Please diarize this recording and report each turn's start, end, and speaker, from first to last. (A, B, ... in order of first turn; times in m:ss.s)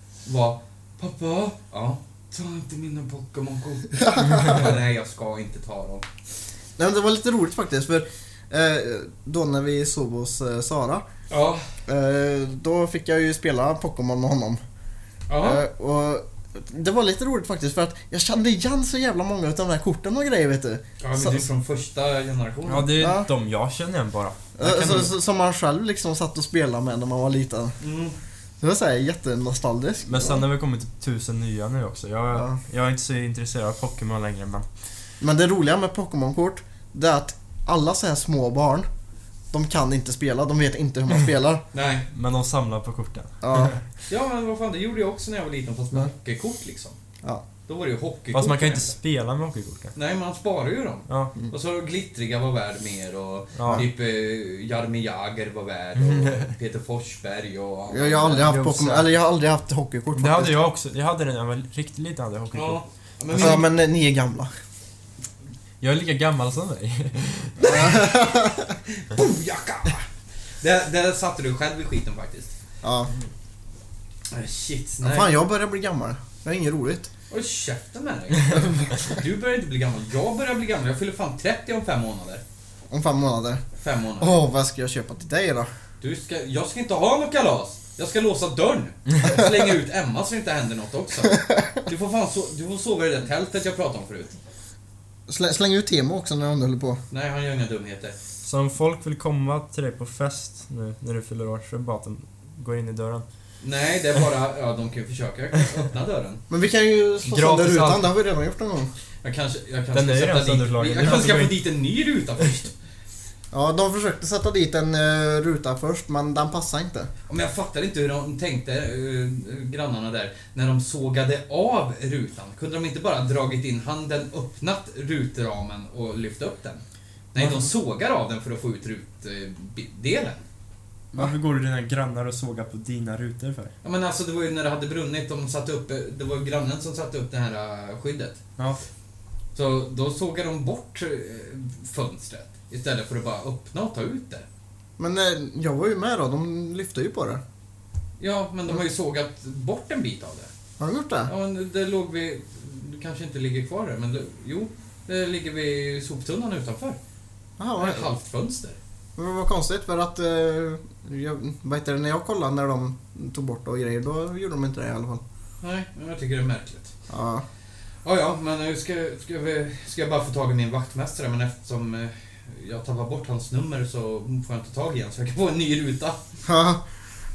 0:00.2-0:06.0 A
0:04.0-0:04.7 B
0:06.8-0:11.0 B
0:11.3-0:11.6 A
0:11.8-0:14.6 B
0:15.3-0:15.6 A
0:15.4-0:21.4 B
0:21.0-0:23.1 A
0:22.6-0:25.1 C
0:23.0-0:23.3 B
0:24.6-0:27.8 B
0:27.8-0:28.2 A
0:28.6-0:30.4 B
0:30.0-0:34.6 C
0:35.2-0:38.9 B
0:39.5-0:41.6 B
0:41.7-0:42.1 A
0:42.1-0:43.8 C
0:43.4-0:43.7 B
0:44.1-0:47.0 A
0:47.7-0:48.9 A
0:48.3-0:49.9 C
0:49.9-0:58.8 A
0:51.1-0:51.3 C
0:53.6-0:53.8 C
0:56.1-0:56.4 C
0:57.9-1:00.6 B
0:58.5-0:59.0 C
1:00.1-1:02.8 C
1:02.5-1:03.7 A
1:03.3-1:04.5 B
1:05.8-1:07.6 C
1:07.6-1:08.3 A
1:07.7-1:08.7 B
1:08.9-1:10.1 A
1:10.6-1:12.5 A
1:12.8-1:13.1 B
1:14.3-1:15.3 A
1:15.0-1:17.1 B
1:17.3-1:22.4 A
1:18.5-1:18.9 B
1:22.9-1:23.6 B
1:23.8-1:24.4 A
1:24.2-1:25.7 B
1:26.0-1:34.4 A
1:35.3-1:37.0 B
1:37.1-1:38.2 A
1:38.4-1:43.2 C
1:43.6-1:46.4 A
1:46.5-1:48.9 B
1:47.3-1:48.0 C
1:49.2-1:52.7 A
1:49.9-1:51.6 C
1:53.5-1:57.1 B
1:57.3-2:06.8 A
2:07.3-2:10.4 A
2:07.4-2:07.6 B
2:11.1-2:13.7 C
2:13.8-2:18.4 A
2:19.5-2:24.4 A
2:25.0-2:27.4 B
2:28.2-2:30.5 A
2:30.8-2:31.3 B
2:31.3-2:37.0 A
2:37.6-2:38.1 B
2:37.8-2:38.8 A
2:39.2-2:45.2 B
2:45.6-2:46.9 A
2:47.1-2:47.4 B
2:48.0-2:56.2 A
2:56.4-2:56.8 B